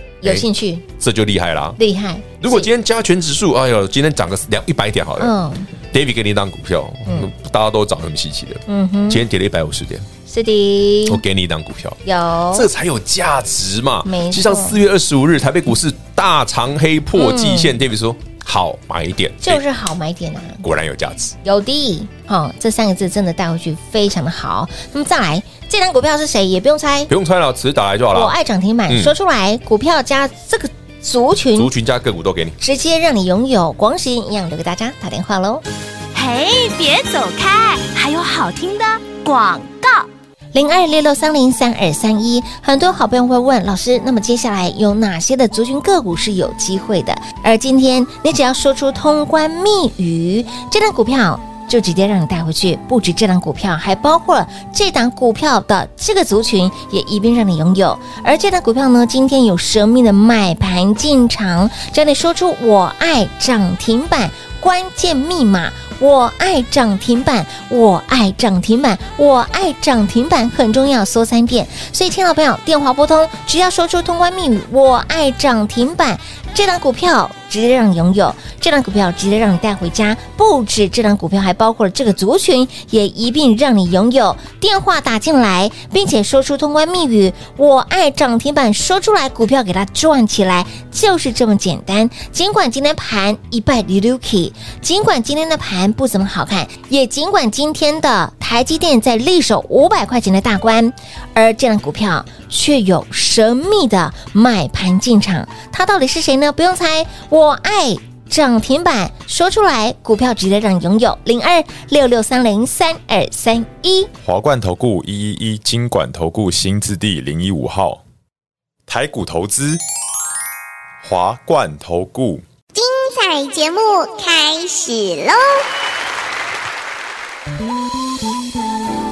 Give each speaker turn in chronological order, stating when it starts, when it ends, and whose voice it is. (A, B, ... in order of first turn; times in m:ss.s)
0:00.2-0:00.8 A
0:01.0-0:01.8 B
0:01.8-0:02.7 A
0:02.4-0:05.3 B
0:05.2-0:05.7 A
0:05.9-0:10.1 B
0:08.7-0:09.2 A
0:10.3-0:11.2 A
0:11.0-0:19.6 B
0:12.0-0:12.7 A
0:14.0-0:14.8 A
0:17.2-0:17.8 A
0:19.4-0:20.6 A
0:20.6-0:21.3 B
0:21.4-0:27.1 A
0:27.1-0:28.4 B
0:28.1-0:31.7 A
0:28.9-0:29.1 B
0:31.5-0:32.6 B
0:32.6-0:35.6 A
0:36.1-0:40.1 C
0:40.5-1:54.1 A
1:54.2-1:58.0 D
1:58.9-1:59.8 D
2:01.0-2:02.4 D
2:02.7-2:05.6 E